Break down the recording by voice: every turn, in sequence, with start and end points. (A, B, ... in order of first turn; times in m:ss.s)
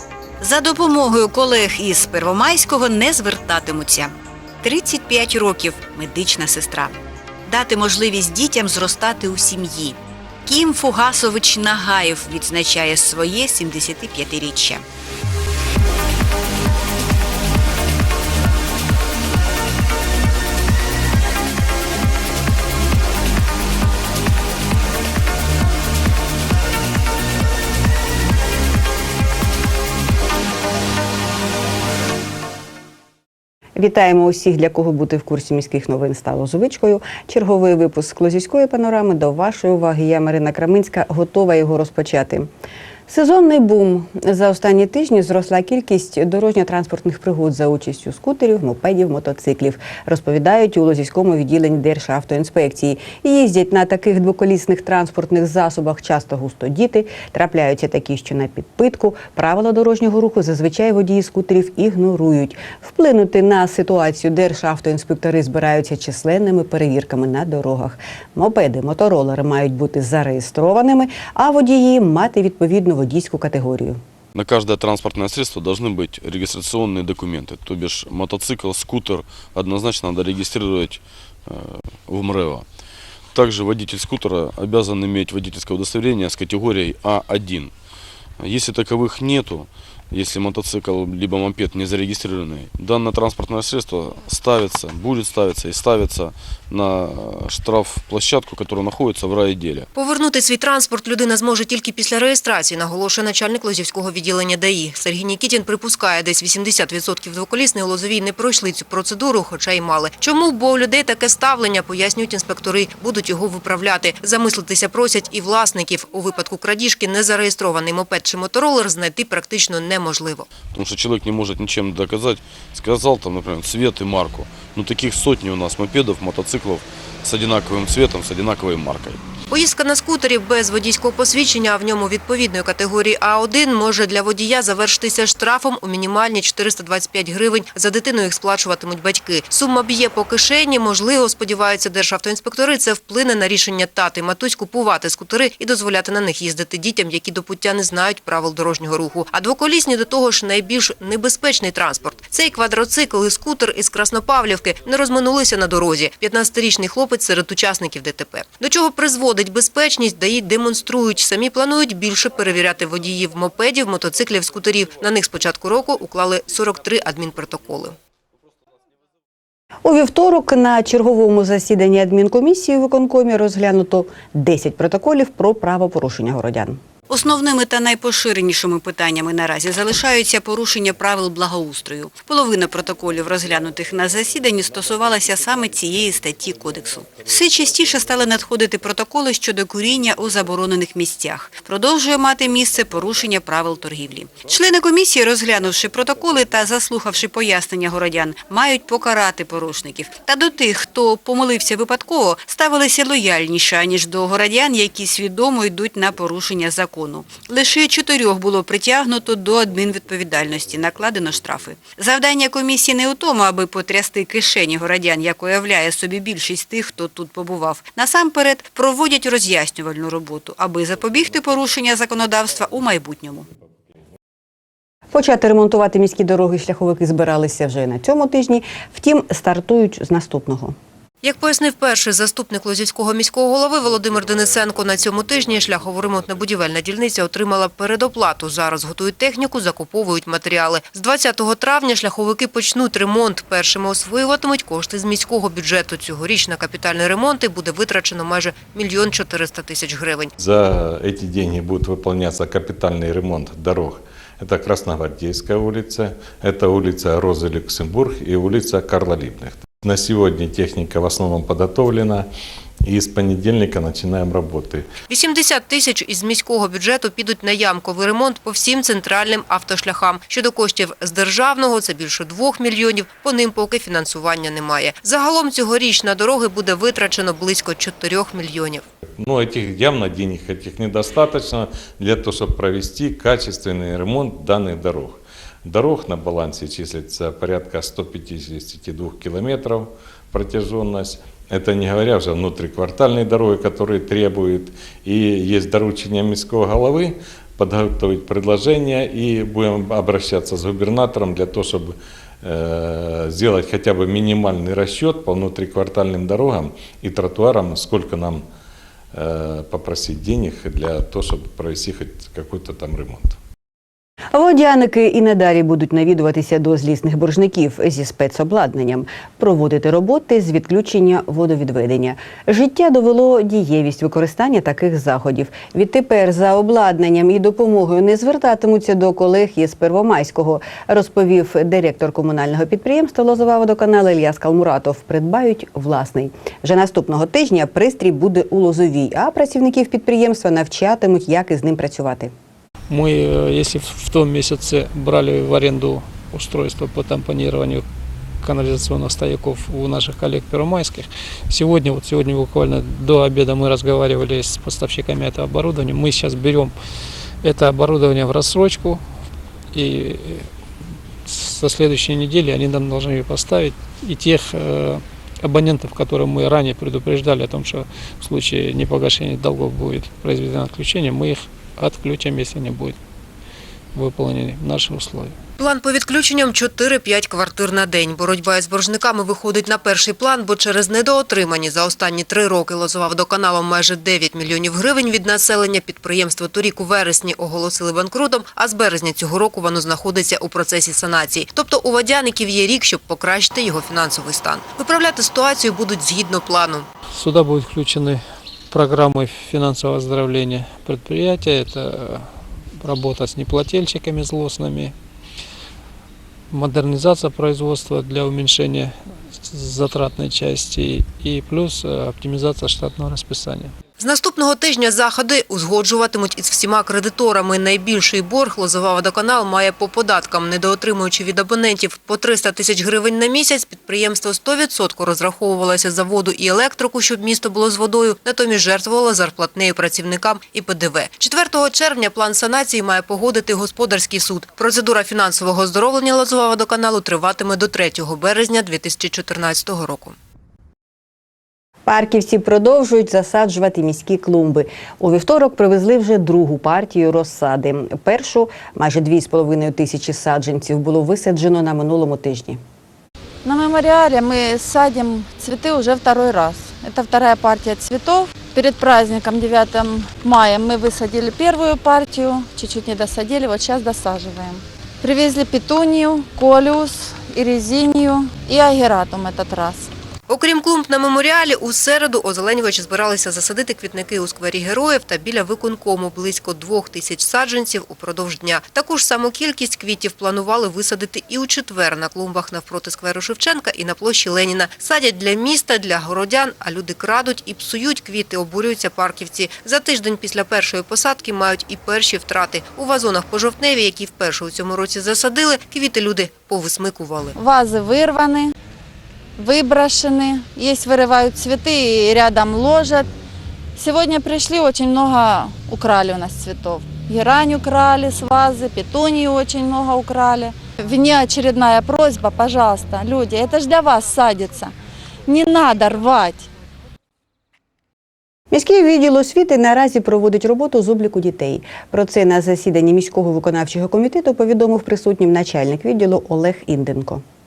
0:00.4-0:14.8 A
0:33.7-0:42.5 B
0:43.1-1:14.0 B
1:14.3-1:22.6 C
1:23.3-1:27.7 C
1:28.4-1:39.9 C
1:39.9-2:00.5 D
2:00.7-2:09.2 C
2:09.5-2:48.0 D
2:49.8-2:56.8 B
2:57.1-3:43.4 A
3:45.1-3:50.8 B
3:51.2-4:10.3 D
4:10.4-4:22.3 E
4:22.8-4:24.8 E
4:25.1-4:38.8 D
4:39.2-5:08.4 E
5:09.1-5:13.4 E
5:14.3-5:42.3 B
5:42.9-5:47.8 F
5:48.4-5:56.7 F
5:57.4-5:59.0 F
5:59.7-6:00.5 F
6:01.2-6:13.0 F
6:13.9-6:15.3 F
6:15.6-6:36.9 D
6:37.1-6:44.9 F
6:46.5-6:53.7 F
6:54.0-7:20.2 D
7:21.8-7:32.6 B
7:33.4-7:49.9 G
7:50.3-8:17.4 D
8:17.3-8:18.5 G
8:19.4-8:23.1 G
8:23.8-8:34.7 G
8:35.2-8:36.5 G
8:38.5-8:47.2 B